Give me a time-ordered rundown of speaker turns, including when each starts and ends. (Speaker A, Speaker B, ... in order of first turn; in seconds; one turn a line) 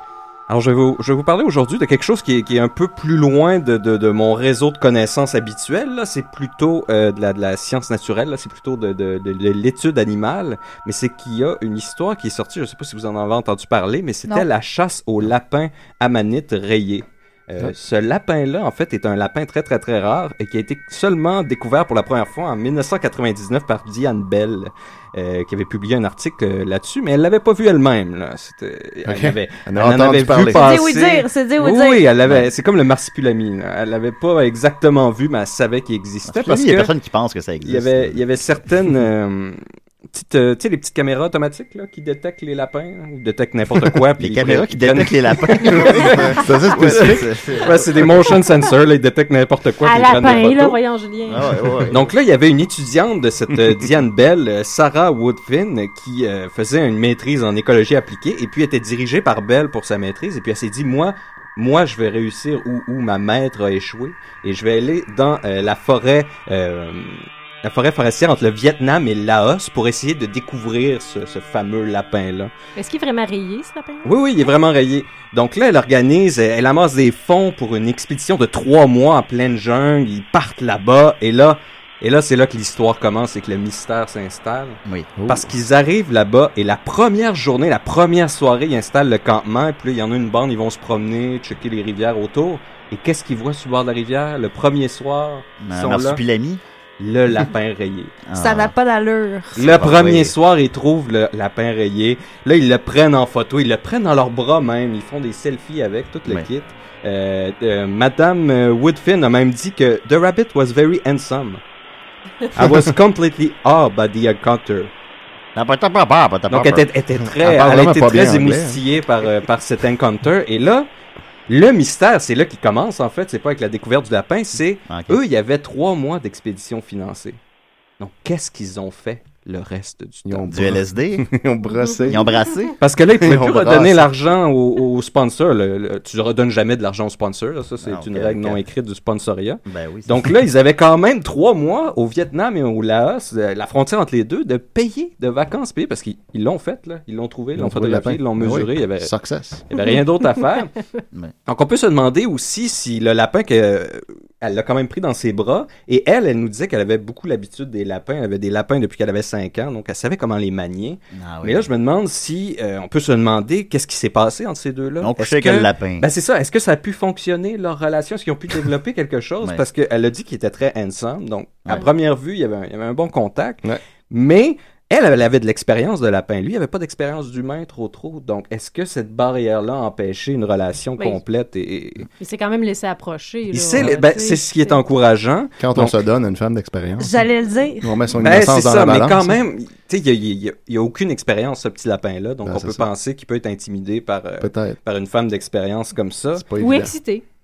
Speaker A: 0.5-36.9
Speaker B: 29.1-30.7
Speaker C: 30.4-32.1
Speaker D: 36.2-38.2
Speaker A: 37.6-50.8
Speaker D: 44.2-47.8
Speaker B: 46.2-48.2
Speaker E: 49.8-51.5
Speaker D: 51.3-52.0
Speaker A: 51.9-72.5
Speaker B: 53.6-53.9
Speaker E: 72.8-74.1
Speaker A: 74.0-96.2
Speaker B: 85.2-85.5
Speaker D: 95.6-96.6
Speaker A: 97.0-98.1
Speaker D: 98.3-98.7
Speaker C: 98.3-99.6
Speaker D: 99.6-100.3
Speaker A: 99.6-111.6
Speaker A: 112.5-114.9
Speaker B: 112.5-113.0
Speaker D: 115.5-116.8
Speaker A: 116.5-120.9
Speaker B: 117.2-118.8
Speaker A: 121.5-127.4
Speaker D: 124.9-125.2
Speaker A: 128.0-130.5
Speaker B: 130.2-132.3
Speaker D: 130.5-131.2
Speaker D: 132.1-132.8
Speaker A: 132.8-149.1
Speaker B: 133.2-134.1
Speaker D: 137.8-138.6
Speaker D: 139.7-140.2
Speaker B: 147.6-149.7
Speaker A: 149.7-150.7
Speaker A: 151.5-182.1
Speaker D: 161.1-161.7
Speaker D: 165.0-166.1
Speaker E: 182.2-184.8
Speaker A: 183.5-185.9
Speaker B: 185.6-187.1
Speaker C: 187.0-188.1
Speaker B: 187.8-189.4
Speaker A: 188.2-196.4
Speaker B: 192.4-192.9
Speaker B: 194.4-194.8
Speaker B: 196.4-196.9
Speaker E: 196.6-197.2